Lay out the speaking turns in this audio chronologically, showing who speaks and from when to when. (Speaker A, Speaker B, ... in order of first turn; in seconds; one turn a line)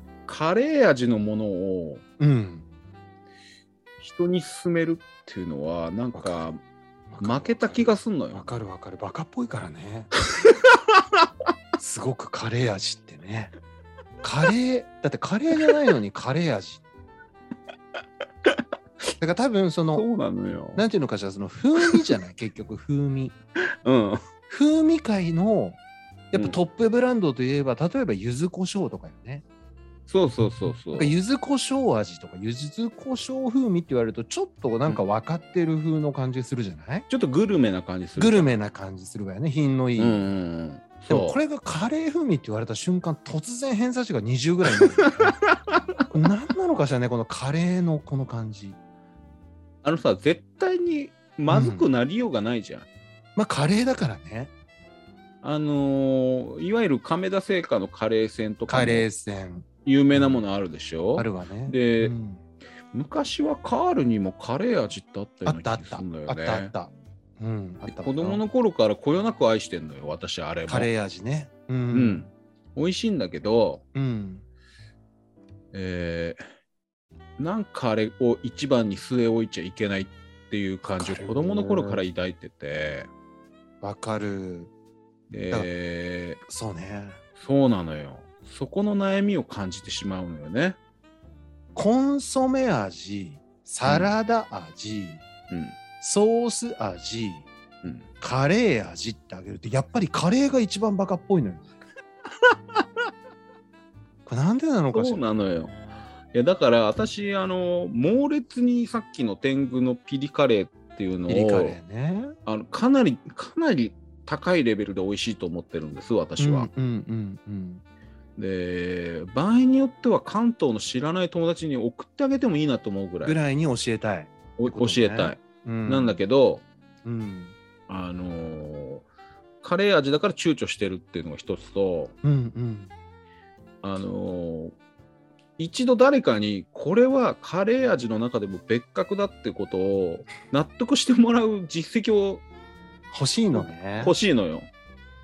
Speaker A: 0.3-2.0
Speaker B: 2.2-2.7
Speaker A: 4.0-6.6
Speaker B: 6.1-6.5
Speaker B: 7.1-10.1
Speaker A: 7.2-8.5
Speaker A: 10.3-10.8
Speaker B: 11.8-13.5
Speaker B: 14.2-16.8
Speaker B: 19.2-20.1
Speaker A: 19.9-20.8
Speaker B: 20.8-23.3
Speaker A: 21.8-22.0
Speaker A: 23.8-24.2
Speaker B: 24.5-25.8
Speaker B: 26.3-29.4
Speaker A: 26.3-26.6
Speaker A: 30.1-31.1
Speaker B: 30.9-37.1
Speaker A: 37.1-38.6
Speaker B: 38.2-40.3
Speaker A: 40.0-41.4
Speaker B: 41.1-45.3
Speaker A: 44.8-45.3
Speaker B: 46.1-48.8
Speaker A: 49.8-52.9
Speaker B: 51.5-51.9
Speaker B: 53.4-54.5
Speaker A: 55.4-59.1
Speaker B: 58.7-60.5
Speaker A: 59.9-62.1
Speaker B: 61.1-62.4
Speaker A: 62.9-66.7
Speaker B: 65.5-68.4
Speaker A: 67.9-70.9
Speaker B: 70.7-72.2
Speaker A: 71.9-73.8
Speaker B: 74.0-74.5
Speaker A: 75.7-76.4
Speaker A: 77.4-83.1
Speaker B: 80.8-82.0
Speaker B: 83.8-84.7
Speaker A: 85.3-86.4
Speaker B: 86.5-87.2
Speaker A: 87.4-90.8
Speaker B: 91.8-95.2
Speaker A: 93.8-94.1
Speaker A: 95.5-95.8
Speaker B: 96.0-97.5
Speaker A: 97.8-98.1
Speaker B: 98.2-101.7
Speaker B: 104.3-105.2
Speaker A: 104.9-111.8
Speaker B: 111.3-112.3
Speaker A: 112.5-116.7
Speaker B: 116.4-117.8
Speaker A: 118.4-123.4
Speaker B: 123.2-126.2
Speaker A: 124.6-126.6
Speaker B: 127.0-127.6
Speaker A: 127.9-129.1
Speaker A: 129.6-132.2
Speaker B: 132.2-132.9
Speaker A: 133.8-134.7
Speaker A: 135.6-142.4
Speaker B: 143.1-144.2
Speaker A: 143.5-144.7